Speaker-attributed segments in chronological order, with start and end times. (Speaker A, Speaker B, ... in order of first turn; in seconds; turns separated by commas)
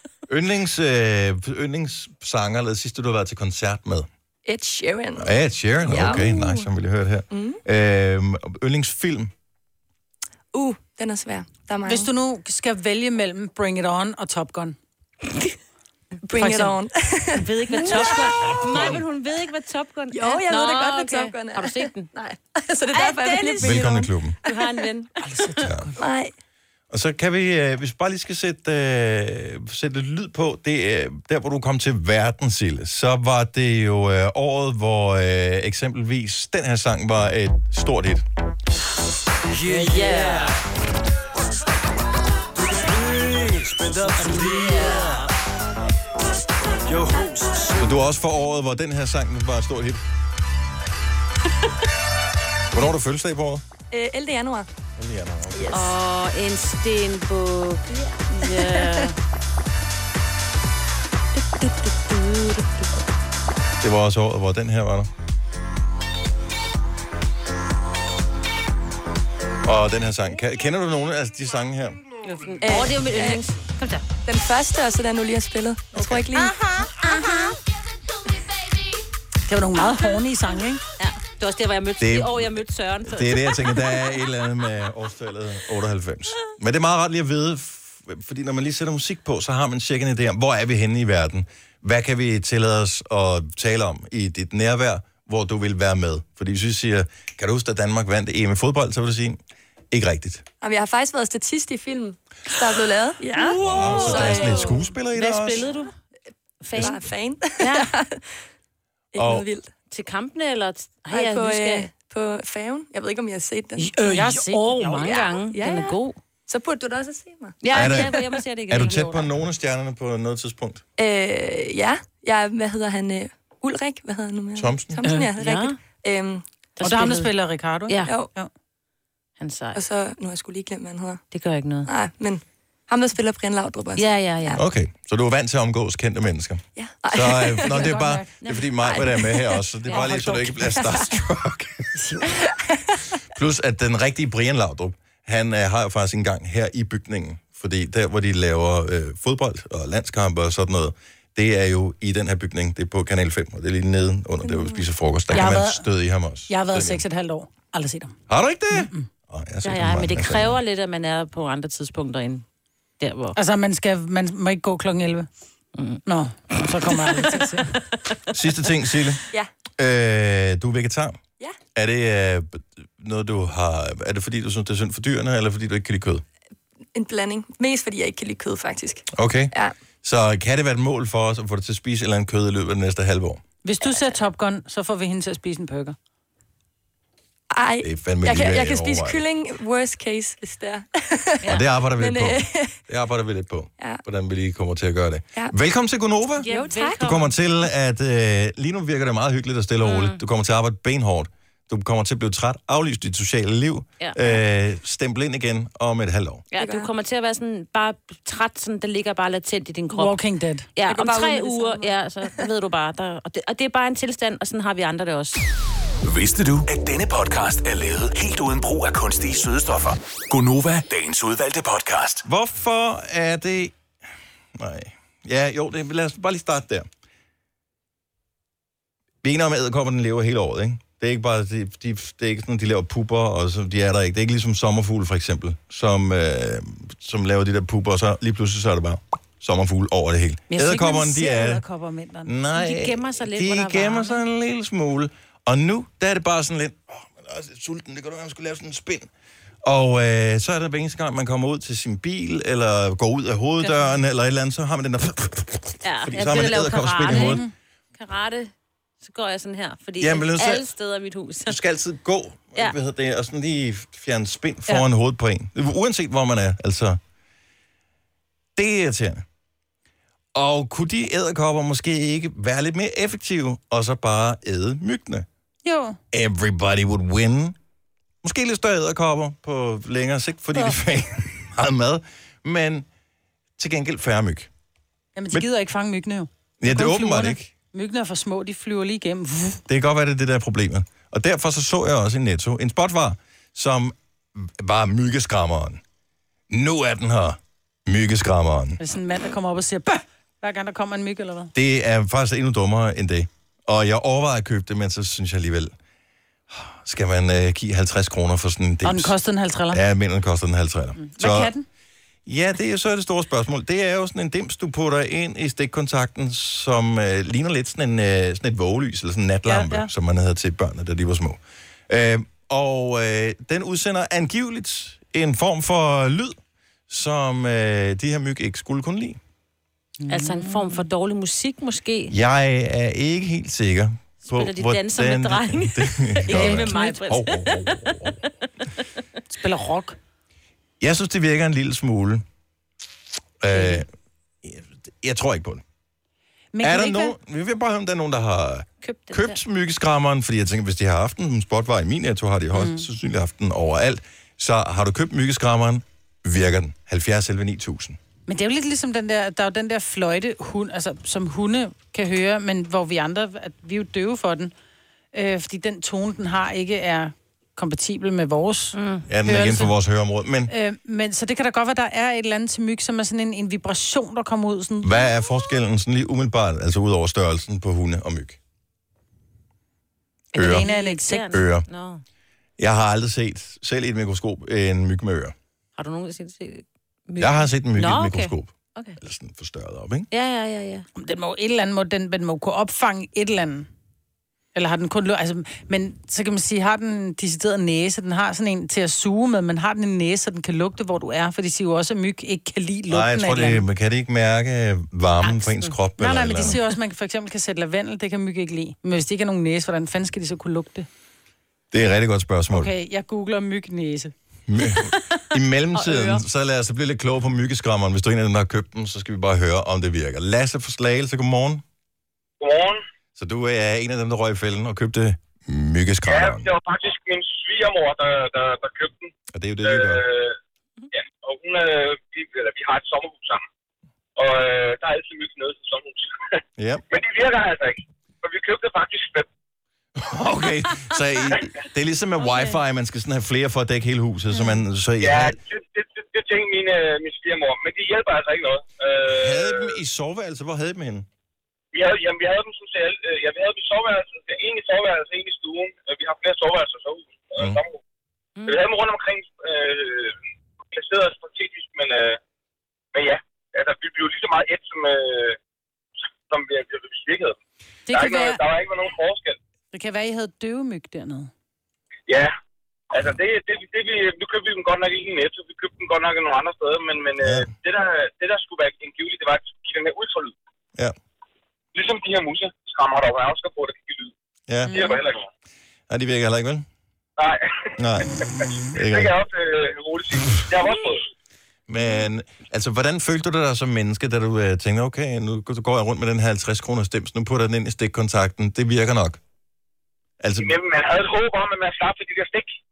Speaker A: 0.3-4.1, Speaker B: 4.5-6.6, Speaker A: 5.2-9.3, Speaker B: 7.3-7.6, Speaker B: 10.5-12.1, Speaker C: 11.8-14.8, Speaker B: 16.2-19.0, Speaker C: 16.4-16.7, Speaker D: 17.4-22.1, Speaker A: 18.7-19.0, Speaker B: 20.1-24.6, Speaker D: 22.9-23.9, Speaker A: 23.6-24.4, Speaker D: 24.4-25.1, Speaker C: 25.2-26.0, Speaker A: 25.6-25.9, Speaker B: 26.0-26.3, Speaker A: 26.9-38.2, Speaker D: 39.7-40.5, Speaker E: 42.9-44.9, Speaker D: 44.0-45.2, Speaker E: 46.9-47.8, Speaker A: 47.7-50.0, Speaker A: 52.7-53.6, Speaker B: 53.9-54.7, Speaker A: 55.0-55.8, Speaker B: 55.5-55.9, Speaker D: 55.7-59.1, Speaker B: 58.0-59.0, Speaker D: 61.6-62.8, Speaker A: 63.8-65.1, Speaker A: 69.6-72.0, Speaker D: 72.2-74.0, Speaker B: 72.6-73.4, Speaker B: 74.2-76.5, Speaker A: 75.9-76.2, Speaker D: 76.8-77.5, Speaker C: 79.5-80.8, Speaker D: 81.0-83.9, Speaker A: 82.0-99.4, Speaker A: 99.9-100.4, Speaker B: 100.6-104.7, Speaker D: 103.3-105.9, Speaker A: 103.6-105.7, Speaker D: 106.6-107.0, Speaker B: 106.7-108.3, Speaker D: 107.6-107.9, Speaker B: 109.1-109.7, Speaker A: 109.2-109.5, Speaker D: 109.9-111.9, Speaker B: 111.1-114.0, Speaker D: 114.0-116.2, Speaker C: 114.0-115.1, Speaker B: 114.9-118.0, Speaker D: 117.6-119.3, Speaker A: 117.7-120.8, Speaker B: 121.0-126.4, Speaker A: 124.5-125.0, Speaker D: 125.0-125.8, Speaker D: 126.8-127.3, Speaker C: 126.8-128.5, Speaker D: 127.9-128.1, Speaker B: 128.0-128.3, Speaker D: 129.4-129.8, Speaker B: 129.7-131.2, Speaker D: 131.3-131.9, Speaker B: 131.8-134.6, Speaker D: 134.0-134.6, Speaker A: 134.5-141.9, Speaker B: 136.8-137.9, Speaker C: 137.7-138.3, Speaker D: 138.4-139.2, Speaker B: 138.9-139.6, Speaker D: 139.9-140.2, Speaker C: 139.9-140.4, Speaker B: 140.6-141.1, Speaker C: 141.9-142.2, Speaker B: 142.3-143.0, Speaker A: 143.3-157.0, Speaker B: 154.4-154.8, Speaker C: 155.3-155.8, Speaker C: 156.5-158.2, Speaker A: 158.3-160.6, Speaker C: 158.7-159.1, Speaker D: 159.6-162.4, Speaker D: 163.0-163.3, Speaker C: 163.3-165.3, Speaker D: 165.8-166.0, Speaker C: 166.1-167.7, Speaker D: 166.6-167.4, Speaker A: 168.3-169.2, Speaker A: 169.8-171.2, Speaker A: 171.7-176.2, Speaker B: 176.9-179.7, Speaker A: 179.1-179.5, Speaker A: 180.0-183.4, Speaker C: 183.6-185.9, Speaker B: 187.5-192.8, Speaker A: 187.8-189.2, Speaker A: 191.4-196.5, Speaker D: 196.4-197.3, Speaker B: 196.5-197.1, Speaker A: 197.0-206.4, Speaker D: 199.8-200.2, Speaker D: 204.0-204.3, Speaker D: 206.5-210.2, Speaker B: 206.6-206.9, Speaker C: 209.9-210.7, Speaker D: 210.8-215.4, Speaker B: 210.9-212.4, Speaker E: 216.0-222.2, Speaker A: 222.2-223.7, Speaker A: 224.5-226.9, Speaker A: 229.2-241.6, Speaker C: 240.5-242.3, Speaker A: 242.2-249.1, Speaker D: 242.5-244.2, Speaker A: 249.6-257.4, Speaker D: 253.6-253.9, Speaker D: 255.8-257.4, Speaker C: 257.1-257.5, Speaker D: 257.9-261.6, Speaker A: 260.0-260.6, Speaker A: 261.4-267.0, Speaker A: 268.6-269.2, Speaker A: 270.3-275.2, Speaker C: 275.6-276.0, Speaker A: 276.1-277.6, Speaker A: 278.2-282.9, Speaker A: 283.6-284.5, Speaker C: 285.1-289.6, Speaker A: 286.6-287.5, Speaker A: 289.7-295.8, Speaker A: 296.5-298.8, Speaker C: 298.8-301.5, Speaker A: 301.5-305.7, Speaker A: 306.5-309.1, Speaker C: 308.8-309.8, Speaker A: 309.7-311.5, Speaker C: 311.0-311.6, Speaker A: 312.2-326.4, Speaker C: 319.4-319.9, Speaker A: 326.9-329.2, Speaker C: 330.0-330.8, Speaker D: 330.1-332.1, Speaker A: 332.1-338.2, Speaker D: 334.2-338.1, Speaker C: 336.3-337.0, Speaker C: 339.3-340.0, Speaker A: 340.8-342.2, Speaker A: 343.4-343.9, Speaker C: 343.5-343.8, Speaker A: 344.4-345.6, Speaker C: 346.5-347.1, Speaker A: 346.6-358.0, Speaker D: 348.8-349.4, Speaker C: 352.5-352.9, Speaker C: 358.3-364.5, Speaker C: 365.1-369.7, Speaker D: 368.7-369.0, Speaker A: 369.1-370.5, Speaker C: 370.5-375.0, Speaker A: 374.8-378.4, Speaker C: 380.3-381.3, Speaker A: 380.3-380.7, Speaker D: 380.6-382.0, Speaker A: 381.3-381.6, Speaker A: 382.6-385.3, Speaker D: 385.8-389.0, Speaker A: 387.2-390.1, Speaker D: 390.1-390.8, Speaker C: 390.9-393.7, Speaker C: 394.5-403.6, Speaker A: 402.9-406.6, Speaker D: 405.2-405.7, Speaker C: 406.0-410.9, Speaker A: 411.7-412.7, Speaker C: 412.5-414.1, Speaker A: 414.5-421.6, Speaker D: 415.7-416.2, Speaker F: 422.4-422.8, Speaker A: 423.1-426.5, Speaker F: 426.1-429.1, Speaker A: 429.3-430.0, Speaker F: 429.6-430.4, Speaker F: 430.9-433.4, Speaker F: 434.2-436.4, Speaker A: 436.6-436.8, Speaker F: 436.9-439.3, Speaker A: 439.9-445.4, Speaker D: 442.2-442.5, Speaker F: 445.0-449.7, Speaker A: 449.1-451.1, Speaker F: 451.7-457.8, Speaker D: 458.4-458.6, Speaker F: 458.4-460.2, Speaker F: 460.7-462.2, Speaker F: 462.9-465.4, Speaker F: 466.3-467.4, Speaker C: 467.9-468.4, Speaker F: 467.9-469.4, Speaker C: 469.7-471.3, Speaker F: 472.1-472.3, Speaker F: 472.9-480.3, Speaker A: 477.2-477.5, Speaker F: 481.7-484.1, Speaker A: 484.5-484.9, Speaker C: 484.7-485.0, Speaker F: 484.7-485.2, Speaker A: 485.9-486.6, Speaker F: 487.2-487.7, Speaker A: 487.8-488.2, Speaker F: 488.4-491.0, Speaker A: 488.7-489.1, Speaker A: 491.7-499.2, Speaker A: 500.2-500.5, Speaker F: 500.4-502.6